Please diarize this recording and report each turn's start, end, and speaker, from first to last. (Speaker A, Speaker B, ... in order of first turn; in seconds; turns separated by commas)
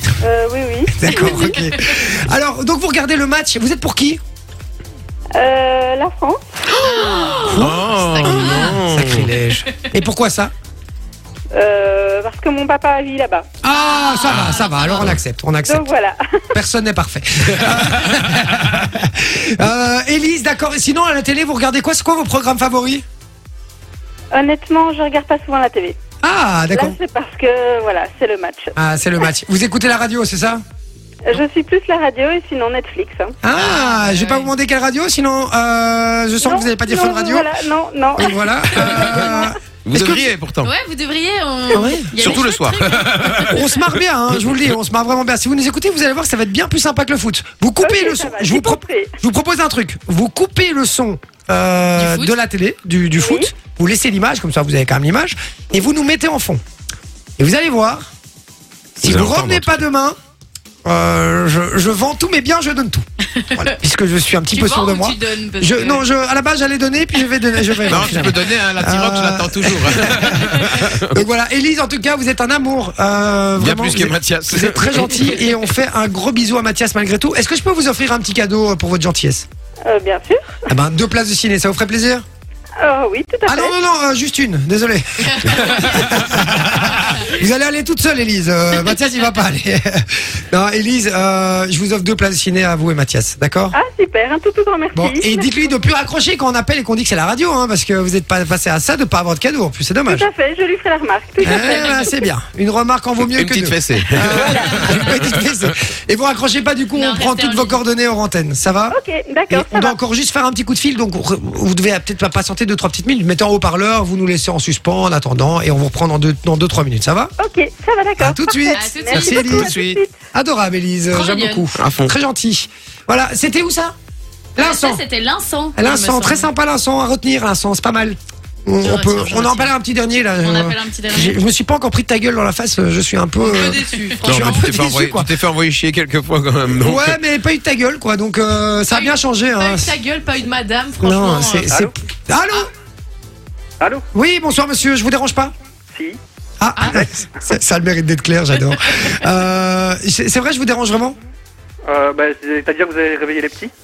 Speaker A: 0.2-1.5, Speaker B: 0.9-4.2, Speaker A: 5.3-6.4, Speaker C: 6.8-7.7, Speaker D: 6.8-9.5, Speaker B: 7.4-10.5, Speaker E: 8.1-8.6, Speaker A: 11.5-13.5, Speaker B: 13.6-15.9, Speaker C: 13.7-15.1, Speaker D: 14.3-14.6, Speaker A: 15.7-16.4, Speaker B: 16.5-23.0, Speaker A: 24.3-25.9, Speaker B: 26.2-27.0, Speaker A: 26.7-28.7, Speaker B: 28.8-30.6, Speaker A: 31.2-33.4, Speaker B: 33.4-37.5, Speaker C: 33.6-33.9, Speaker E: 33.9-34.4, Speaker A: 36.4-39.5, Speaker B: 38.1-40.3, Speaker D: 39.8-40.7, Speaker C: 40.7-43.4, Speaker E: 41.1-41.7, Speaker B: 41.7-42.1, Speaker D: 42.1-43.7, Speaker B: 43.2-56.6, Speaker A: 47.8-49.1, Speaker E: 52.0-52.3, Speaker A: 53.2-53.5, Speaker B: 57.4-58.1, Speaker B: 59.0-60.2, Speaker D: 59.0-59.8, Speaker B: 60.8-79.4, Speaker C: 64.5-66.0, Speaker D: 67.9-71.2, Speaker D: 73.6-75.5, Speaker A: 79.8-80.6, Speaker B: 80.7-82.2, Speaker A: 82.8-83.7, Speaker B: 83.5-93.8, Speaker A: 93.7-95.5, Speaker B: 94.9-100.3, Speaker A: 100.1-102.3, Speaker B: 101.4-109.0, Speaker D: 103.3-105.4, Speaker A: 104.3-104.9, Speaker C: 106.9-107.8, Speaker A: 108.9-109.9, Speaker B: 109.5-117.3, Speaker A: 117.4-120.1, Speaker B: 118.2-119.7, Speaker C: 118.7-119.1, Speaker D: 119.0-120.0, Speaker B: 120.3-123.9, Speaker C: 121.1-121.6, Speaker D: 121.7-122.1, Speaker B: 124.6-125.0, Speaker C: 124.6-126.0, Speaker B: 125.8-135.3, Speaker E: 125.9-126.5, Speaker E: 128.8-129.7, Speaker E: 130.4-131.3, Speaker E: 133.4-134.7, Speaker D: 134.2-137.2, Speaker B: 136.7-139.9, Speaker E: 138.9-141.7, Speaker B: 141.0-142.7, Speaker B: 144.1-145.5, Speaker F: 145.9-146.2, Speaker B: 146.6-151.2, Speaker E: 146.8-147.2, Speaker F: 151.9-153.7